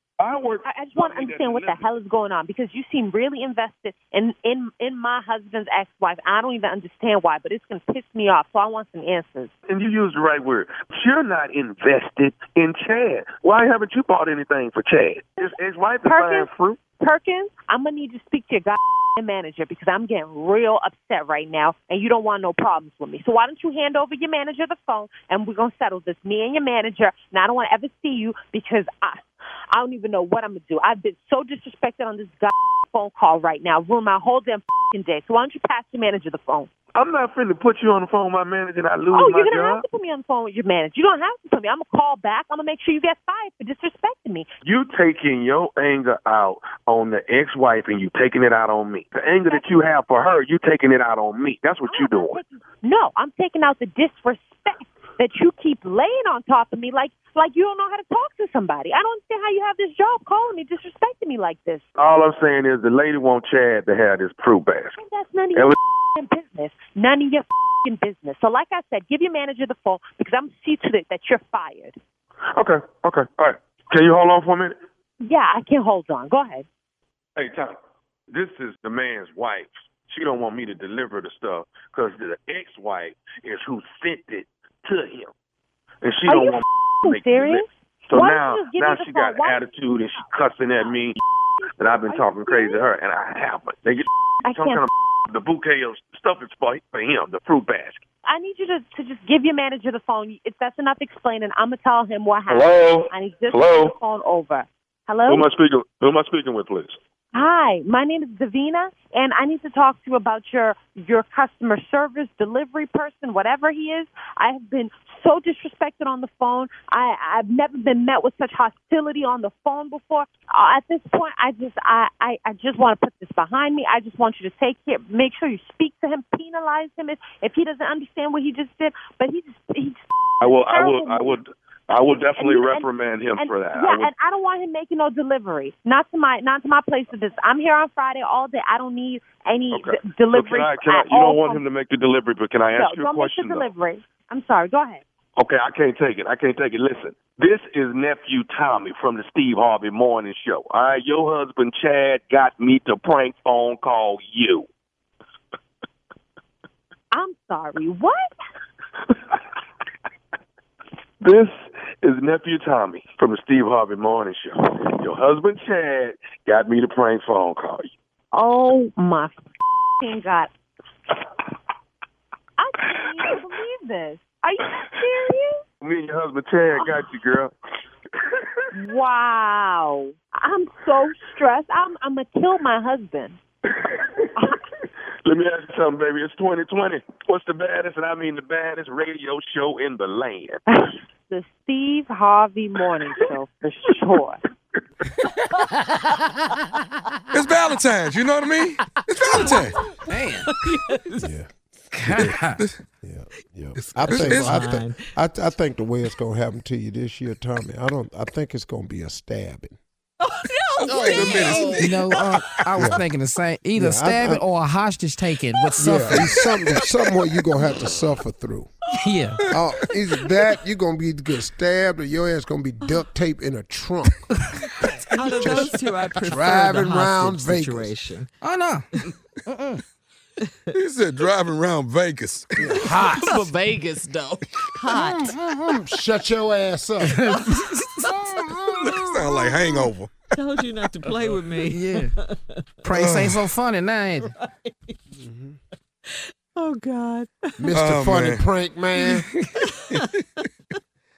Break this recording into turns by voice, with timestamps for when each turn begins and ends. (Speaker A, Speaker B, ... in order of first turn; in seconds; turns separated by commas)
Speaker A: 0.2-1.9, Speaker B: 0.7-9.5, Speaker A: 9.7-16.8, Speaker B: 15.4-36.7, Speaker A: 37.0-39.8, Speaker B: 39.1-44.5, Speaker A: 44.6-52.4, Speaker B: 49.5-49.7, Speaker B: 51.9-61.9, Speaker A: 62.0-65.0, Speaker B: 65.0-72.0, Speaker A: 72.5-74.8, Speaker B: 75.2-76.7, Speaker A: 77.4-77.8, Speaker A: 78.3-85.3, Speaker A: 86.0-91.2, Speaker B: 86.3-90.3, Speaker B: 91.6-92.9, Speaker A: 91.8-98.0, Speaker B: 94.4-94.9, Speaker B: 98.2-105.5, Speaker A: 102.5-103.9, Speaker A: 105.3-107.0, Speaker B: 107.3-131.4, Speaker A: 130.4-134.1, Speaker B: 132.4-141.6, Speaker A: 139.7-143.7, Speaker B: 142.8-145.0, Speaker A: 145.4-154.7, Speaker B: 157.1-158.3, Speaker A: 161.2-167.9, Speaker B: 168.3-169.4, Speaker B: 170.0-170.5, Speaker B: 172.6-175.6, Speaker A: 175.8-177.5, Speaker B: 176.8-177.1, Speaker B: 178.7-183.4, Speaker A: 183.8-184.3, Speaker A: 185.2-190.6, Speaker B: 190.7-194.4, Speaker C: 197.3-199.9, Speaker D: 199.3-199.8, Speaker E: 200.1-200.5, Speaker D: 200.6-201.3, Speaker F: 201.2-201.5, Speaker E: 202.0-202.6, Speaker F: 202.1-202.4, Speaker C: 202.1-202.8, Speaker F: 203.0-209.8, Speaker C: 203.8-204.6, Speaker D: 204.1-205.0, Speaker D: 210.2-212.5, Speaker C: 210.8-211.8, Speaker E: 211.0-216.2, Speaker F: 212.8-213.1, Speaker F: 213.8-214.4, Speaker F: 215.8-218.8, Speaker E: 219.0-219.4, Speaker F: 219.4-228.0, Speaker D: 225.1-228.3, Speaker C: 225.4-225.7, Speaker E: 228.4-228.9, Speaker E: 229.5-229.8, Speaker C: 230.7-233.1, Speaker F: 232.6-233.4, Speaker E: 232.9-234.5, Speaker D: 234.7-235.4, Speaker F: 234.9-237.3, Speaker E: 235.4-235.7, Speaker E: 237.1-237.4, Speaker C: 238.9-240.2, Speaker D: 239.0-239.6, Speaker D: 240.3-242.9, Speaker E: 241.7-242.2, Speaker E: 242.8-244.3, Speaker C: 242.9-243.4, Speaker D: 244.2-245.0, Speaker F: 245.1-245.6, Speaker D: 246.1-247.7, Speaker F: 247.6-249.3, Speaker C: 247.7-248.5, Speaker C: 249.1-250.5, Speaker D: 249.6-249.9